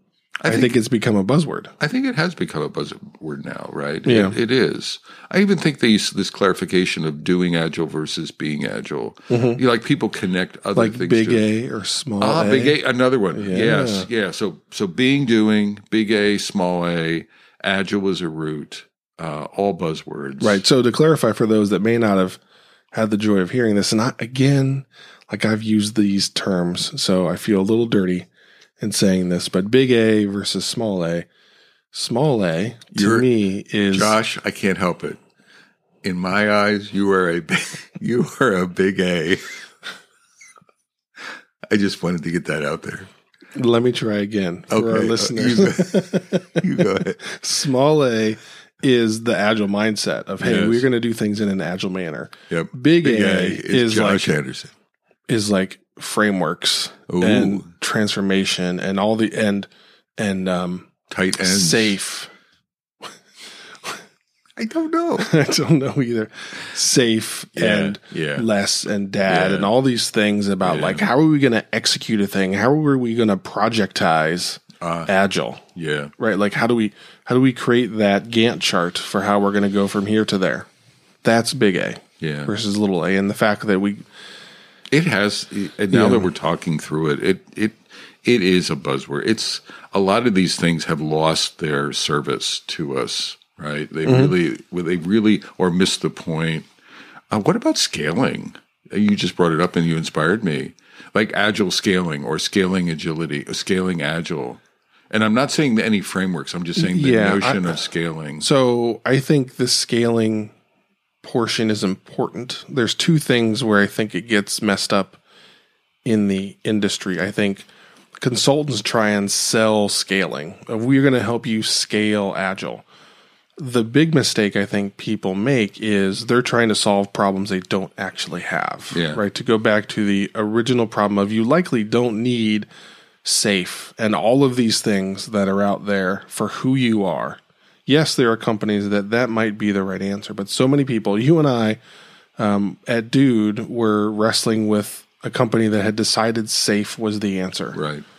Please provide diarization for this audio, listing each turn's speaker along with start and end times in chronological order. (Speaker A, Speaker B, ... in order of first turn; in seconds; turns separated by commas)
Speaker A: 0.4-0.8, Speaker B: 0.5-1.7, Speaker A: 1.8-11.4, Speaker B: 4.1-4.4, Speaker B: 9.3-9.6, Speaker B: 10.8-12.8, Speaker A: 12.2-20.6, Speaker B: 13.3-14.1, Speaker B: 20.4-22.4, Speaker B: 22.9-28.3, Speaker B: 28.8-31.3, Speaker B: 31.9-34.2, Speaker A: 33.0-33.3, Speaker A: 33.9-35.2, Speaker A: 36.0-39.5, Speaker A: 41.7-43.1, Speaker B: 43.5-54.4, Speaker A: 44.7-47.2, Speaker A: 50.4-50.8, Speaker A: 52.5-54.7, Speaker B: 55.3-62.3, Speaker A: 57.1-57.7, Speaker A: 61.1-62.0, Speaker A: 64.6-65.3, Speaker B: 65.2-75.6, Speaker A: 67.6-68.5, Speaker A: 69.3-69.7, Speaker A: 70.7-71.1, Speaker A: 74.8-75.1, Speaker A: 75.8-76.1, Speaker B: 76.2-80.7, Speaker B: 81.2-84.0, Speaker A: 82.2-82.5, Speaker A: 84.9-96.7, Speaker B: 85.9-86.3, Speaker B: 94.1-94.3, Speaker A: 97.3-108.5, Speaker B: 106.8-107.8, Speaker B: 108.4-110.5, Speaker B: 111.2-115.2, Speaker B: 116.0-117.7, Speaker B: 118.2-122.8, Speaker B: 123.6-132.7, Speaker A: 128.9-129.2, Speaker B: 133.2-141.8, Speaker B: 142.4-147.8, Speaker A: 147.7-148.1